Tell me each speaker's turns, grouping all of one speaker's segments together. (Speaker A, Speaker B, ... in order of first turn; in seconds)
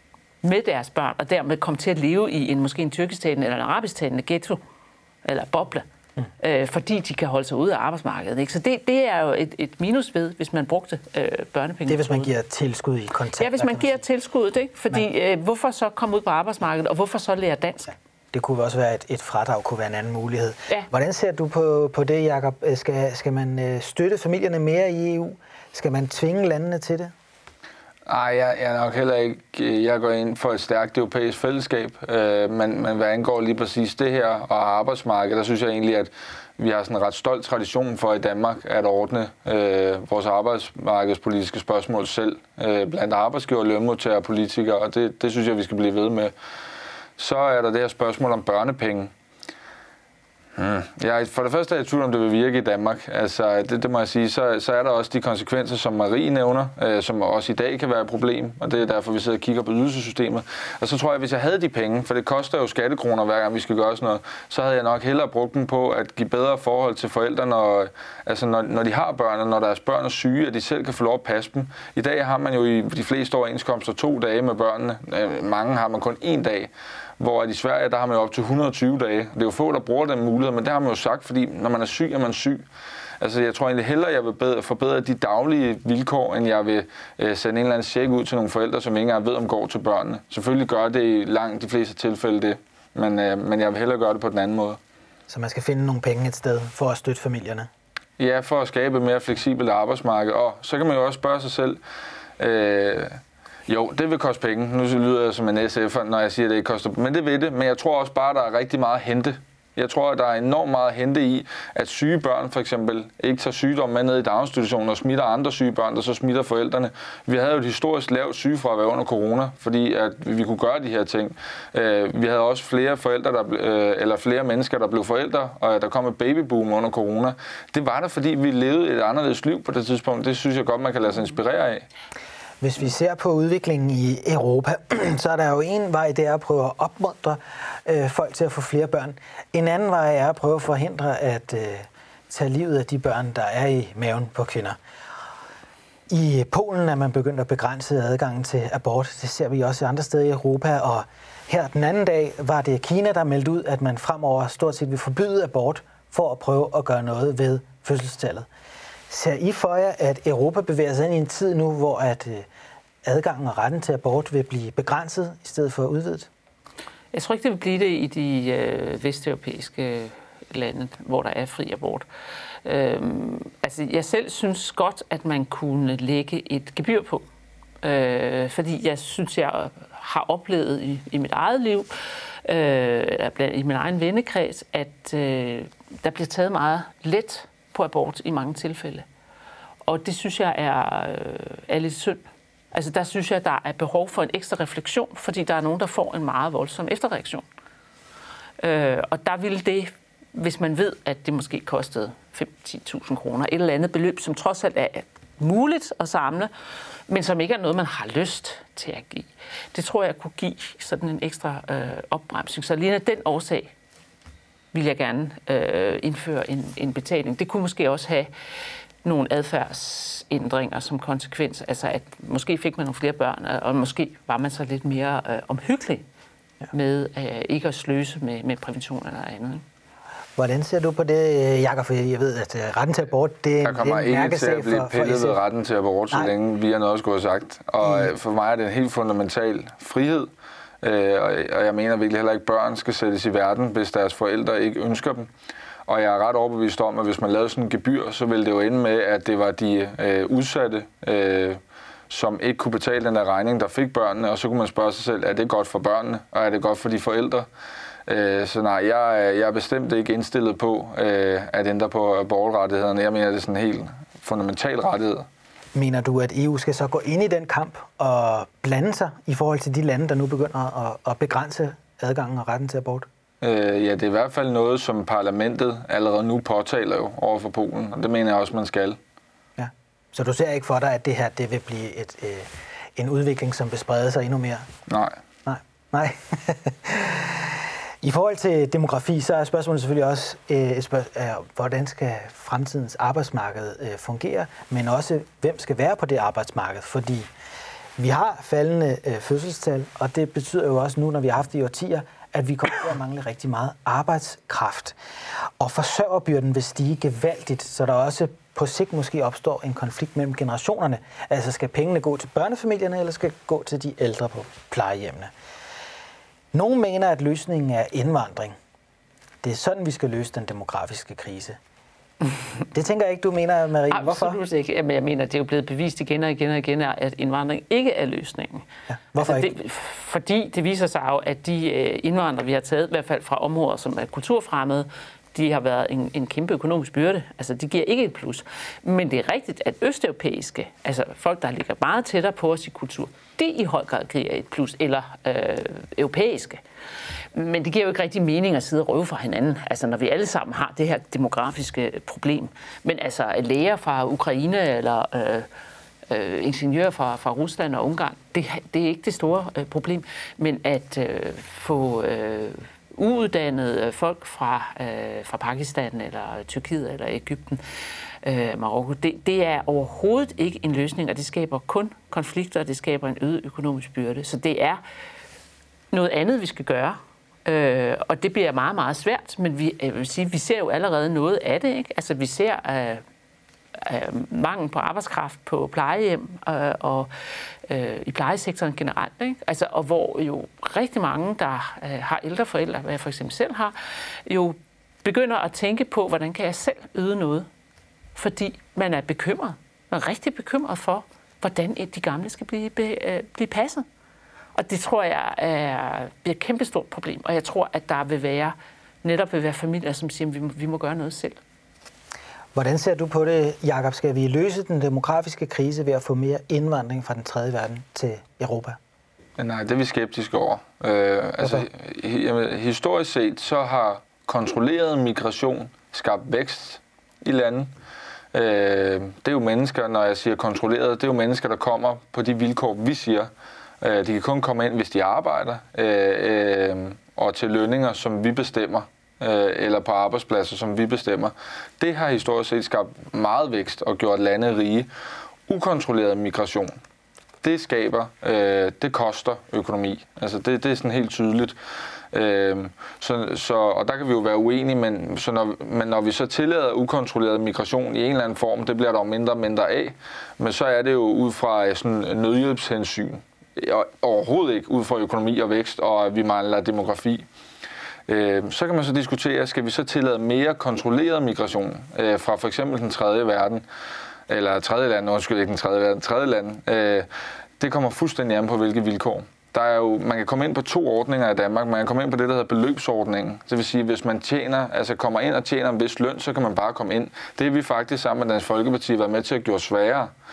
Speaker A: 0.4-4.6, 5.2-5.8, 6.4-12.3, 13.4-17.9, 167.1-172.1, 172.6-177.2, 177.8-189.1, 189.8-197.4, 198.6-206.5, 207.1-213.7, 214.7-218.3, 219.0-226.0, 226.7-229.6, 323.9-328.7, 329.2-346.6, 347.3-355.5, 356.1-367.6, 368.2-374.8, 375.9-383.0, 383.7-387.1, 387.7-397.5, 398.1-403.9, 404.5-411.4
Speaker B: 11.9-14.0, 18.3-27.1, 95.3-97.7, 132.6-144.8, 146.1-158.5, 159.1-162.5, 163.0-166.3, 230.3-235.4, 237.8-238.1, 265.7-273.1, 279.6-284.7, 285.4-297.3, 298.0-304.9, 305.6-315.3, 316.5-318.5, 319.4-321.6, 322.7-324.4, 328.9-329.5, 412.5-418.8
Speaker C: 28.1-46.3, 47.2-49.1, 50.6-82.6, 83.2-94.8, 98.2-101.8, 102.4-131.8, 233.6-240.3, 240.8-245.3, 245.9-257.5, 258.1-265.3, 273.4-279.0, 284.9-285.2, 419.4-427.7, 428.3-433.3, 433.8-444.9, 445.5-446.8, 447.4-451.6, 452.1-467.2, 468.1-473.6, 474.3-477.1, 477.6-490.1